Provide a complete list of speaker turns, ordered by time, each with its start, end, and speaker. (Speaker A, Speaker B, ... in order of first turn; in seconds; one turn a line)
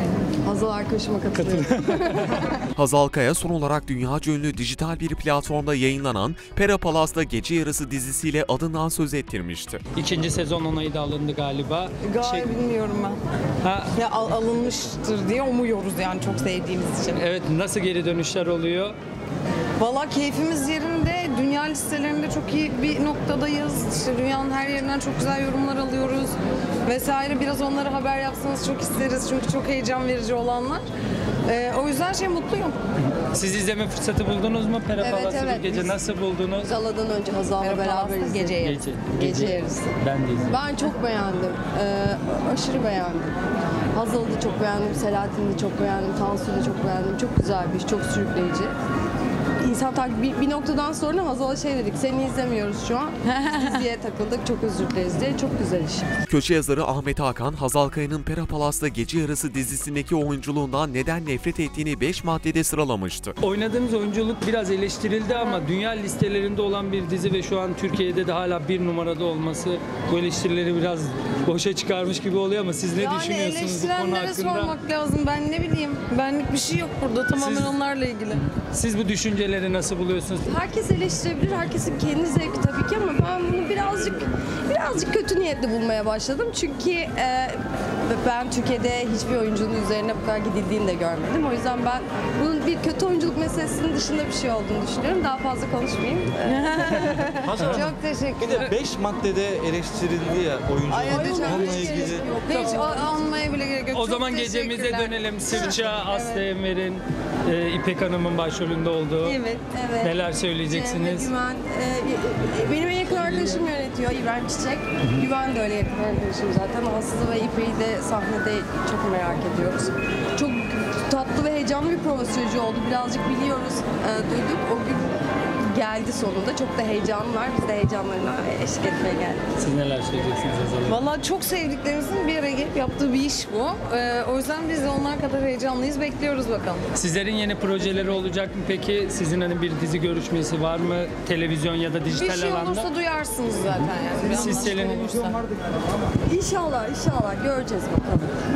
Speaker A: 0.4-2.5
Speaker B: 1.4-1.9
Speaker C: 2.8-9.8
Speaker B: 9.9-12.5
Speaker D: 12.1-13.2
Speaker B: 13.6-14.0
Speaker D: 13.9-17.2
Speaker B: 17.1-19.0
Speaker D: 19.8-30.9
Speaker D: 31.4-32.8
Speaker B: 33.2-36.7
Speaker A: 35.0-36.0
Speaker A: 36.6-38.6
Speaker D: 37.6-38.8
Speaker B: 38.6-40.5
Speaker A: 39.2-43.4
Speaker A: 43.9-48.8
Speaker A: 49.6-56.1
Speaker C: 56.3-63.4
Speaker B: 63.4-74.8
Speaker D: 73.0-78.4
Speaker B: 77.4-77.8
Speaker B: 78.4-80.5
Speaker A: 80.5-97.4
Speaker D: 96.5-98.7
Speaker E: 97.4-102.3
Speaker D: 100.9-106.4
Speaker A: 101.0-103.1
Speaker B: 103.9-109.4
Speaker D: 109.2-109.6
Speaker A: 109.6-129.5
Speaker B: 110.0-111.3
Speaker B: 129.6-131.0
Speaker D: 130.9-136.9
Speaker B: 136.9-142.9
Speaker D: 142.1-145.4
Speaker B: 144.4-145.3
Speaker A: 146.3-148.3